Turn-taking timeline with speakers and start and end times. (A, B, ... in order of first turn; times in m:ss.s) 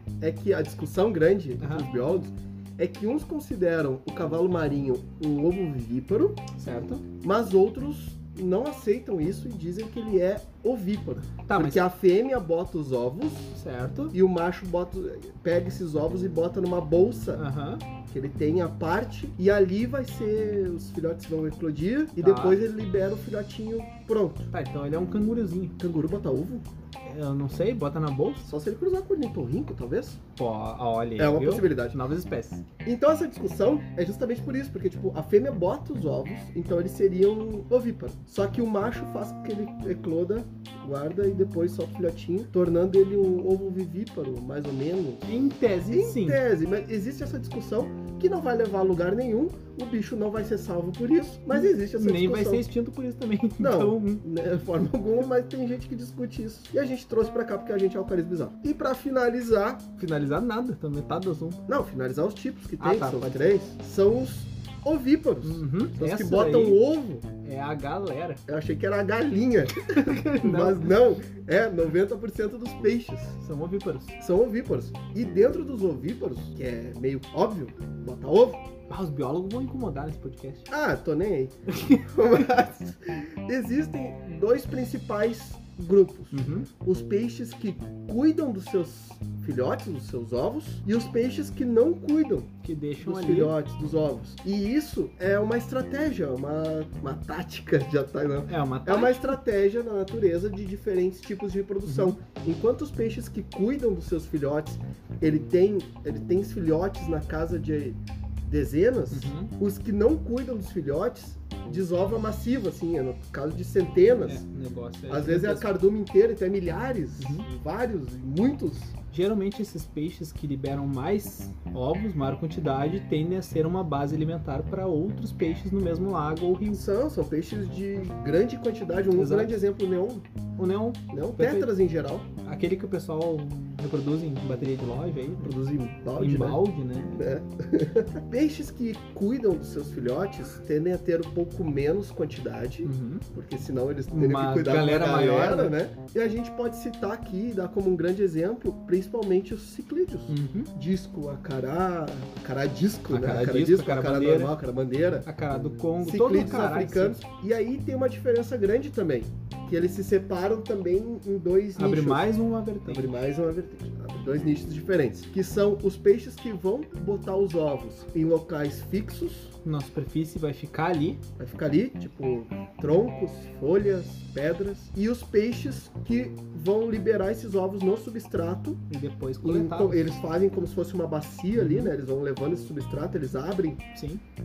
0:00.2-0:06.5 A
0:01.6-0:01.9 B
0:06.6-0:07.0 B
0:07.2-0:13.6 A
0:11.5-0:11.8 B
0:13.6-0:14.2 B
0:14.1-0:17.4 A
0:17.4-0:17.8 B
0:18.1-0:24.5 A
0:22.2-0:22.6 B
0:24.5-0:25.8 B
0:25.8-0:26.6 A
0:27.0-0:28.5 B
0:28.5-0:30.2 A
0:30.4-0:32.6 B
0:31.2-0:32.0 A
0:32.8-0:52.6 A
0:45.3-0:46.4 B
0:51.5-0:54.2 B
0:53.6-0:59.9 A
1:00.0-1:01.6 B
1:01.7-1:07.2 A
1:02.8-1:03.6 B
1:05.4-1:06.8 B
1:07.4-1:08.4 B
1:08.5-1:13.4 A
1:09.8-1:10.9 B
1:13.4-1:14.2 B
1:14.2-1:18.6 A
1:18.9-1:20.7 B
1:20.7-1:32.5 A
1:21.7-1:22.2 B
1:26.3-1:26.7 B
1:32.6-1:33.6 B
1:33.0-1:54.4 A
1:38.5-1:39.4 B
1:41.9-1:42.2 B
1:49.1-1:49.5 B
1:54.2-1:55.7 B
1:55.1-1:58.9 A
1:57.2-1:57.5 B
1:59.1-2:06.8 B
2:06.7-2:10.2 A
2:09.2-2:09.5 B
2:10.6-2:11.7 B
2:11.1-2:12.3 A
2:12.4-2:15.5 B
2:15.4-2:16.6 A
2:16.2-2:17.2 B
2:17.2-2:35.3 A
2:22.8-2:23.2 B
2:24.1-2:25.8 B
2:30.3-2:30.7 B
2:33.1-2:34.6 B
2:35.3-2:37.2 B
2:36.0-2:42.3 A
2:41.8-2:43.1 B
2:42.8-2:49.5 A
2:49.6-2:51.2 B
2:51.4-2:58.8 A
2:58.9-3:00.2 B
2:59.4-3:03.9 A
3:01.6-3:01.9 B
3:04.0-3:04.2 B